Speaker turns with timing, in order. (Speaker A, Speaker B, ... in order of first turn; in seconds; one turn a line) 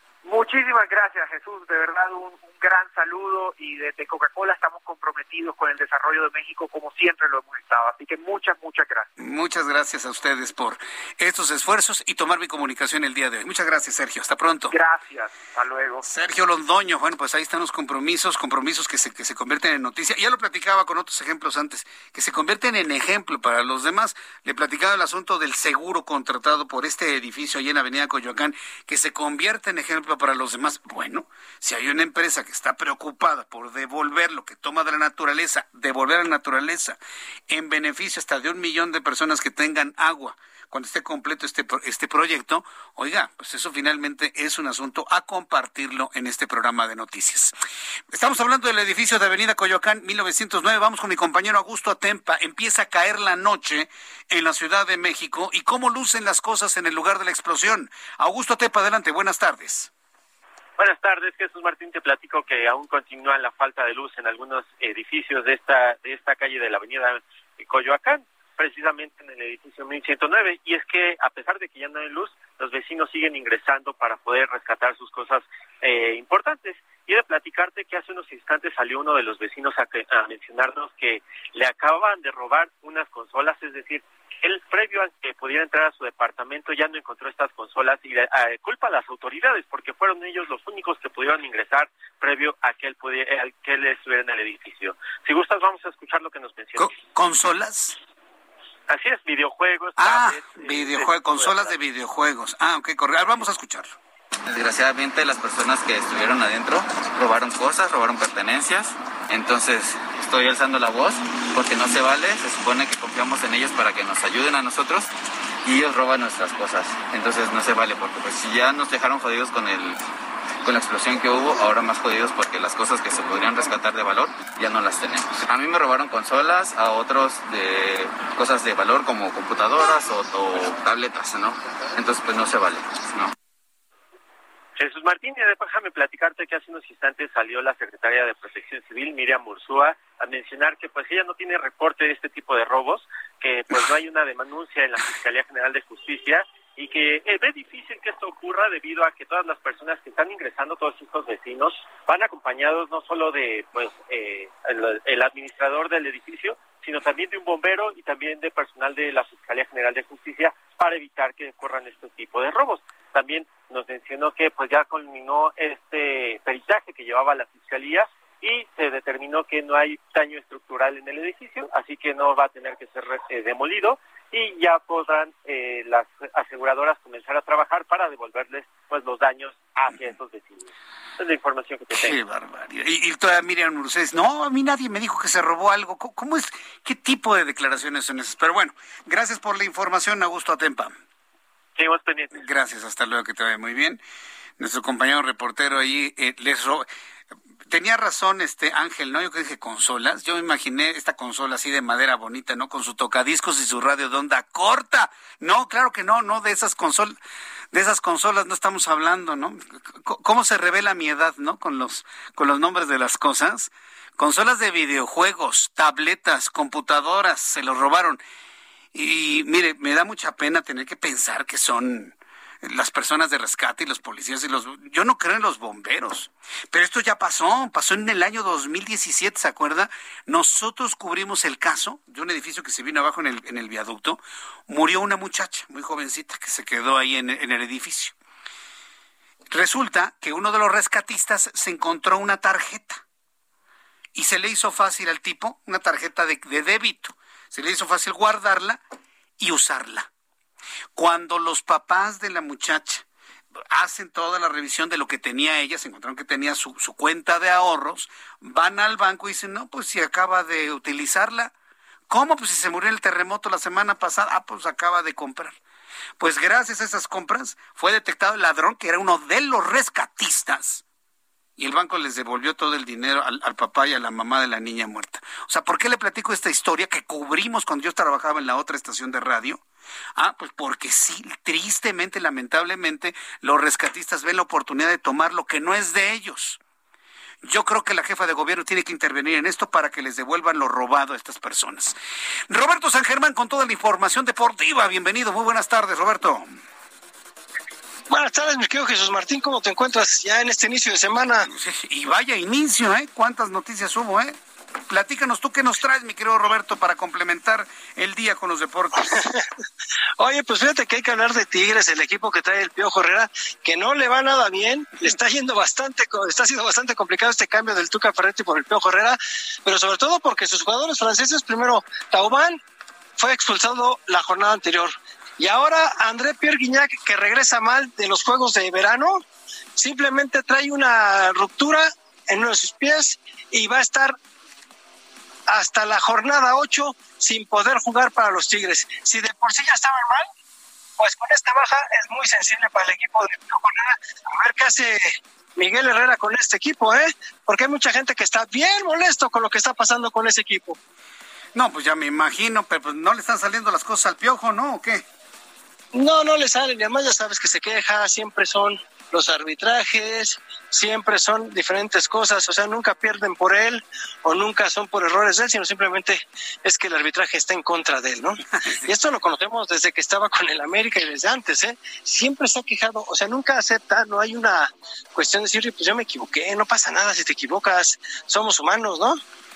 Speaker A: 0.2-9.1
Speaker B: 9.2-14.7
Speaker A: 14.7-16.1
Speaker B: 16.0-37.0
Speaker B: 37.5-47.5
Speaker B: 48.1-59.9
Speaker C: 60.8-96.9
Speaker B: 96.8-98.0
Speaker C: 98.9-101.8
Speaker B: 100.0-103.9
Speaker D: 104.5-115.1
Speaker D: 115.7-120.0
Speaker D: 120.6-133.3
Speaker C: 134.8-182.2
Speaker B: 181.9-190.9
Speaker C: 191.8-192.4
Speaker B: 192.3-194.0
Speaker B: 194.6-196.9
Speaker B: 197.7-207.2
Speaker B: 207.7-218.2
Speaker B: 218.9-238.2
Speaker B: 239.5-243.0
Speaker B: 244.2-248.8
Speaker B: 249.4-250.1
Speaker B: 251.0-253.1
Speaker B: 253.7-261.5
Speaker B: 262.1-265.6
Speaker B: 266.2-270.8
Speaker B: 271.6-279.6
Speaker B: 280.2-286.6
Speaker B: 287.4-292.0
Speaker B: 292.5-296.5
Speaker E: 298.1-301.5
Speaker B: 301.5-304.4
Speaker B: 304.9-309.1
Speaker E: 309.0-309.5
Speaker E: 310.2-322.6
Speaker E: 323.2-329.2
Speaker E: 329.8-334.2
Speaker E: 335.5-340.3
Speaker E: 341.0-350.8
Speaker B: 351.6-355.0
Speaker E: 355.9-379.2
Speaker B: 368.5-368.9